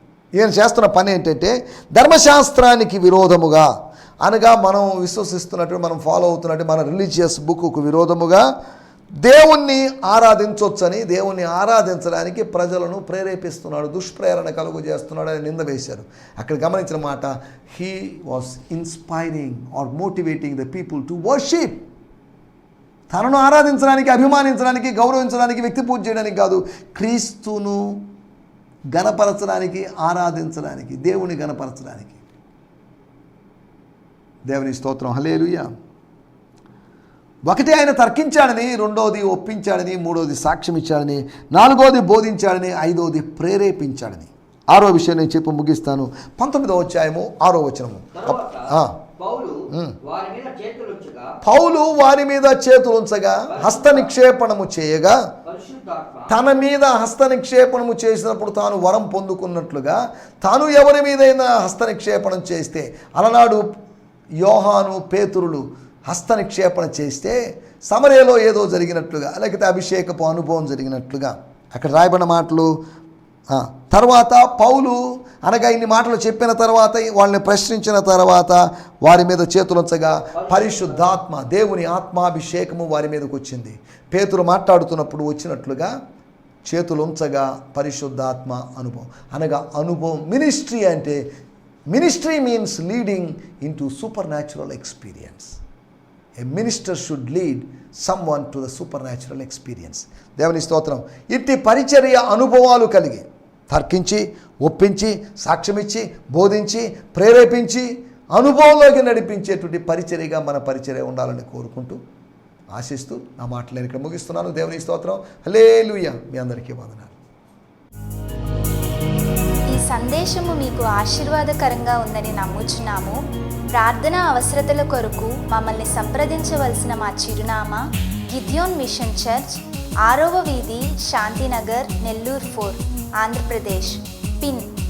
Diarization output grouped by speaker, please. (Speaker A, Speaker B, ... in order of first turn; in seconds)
Speaker A: 0.3-8.4, 9.2-21.8, 23.1-28.0, 28.9-32.2, 34.5-35.7, 37.5-49.0, 49.7-50.0, 51.4-55.3, 56.3-63.7, 64.4-72.7, 73.5-85.9, 86.6-91.2, 91.9-95.6, 96.4-112.0, 112.7-117.1
Speaker B: 48.1-51.4, 53.5-54.1, 55.4-56.4, 80.3-81.1
Speaker C: 119.7-123.2, 123.7-134.7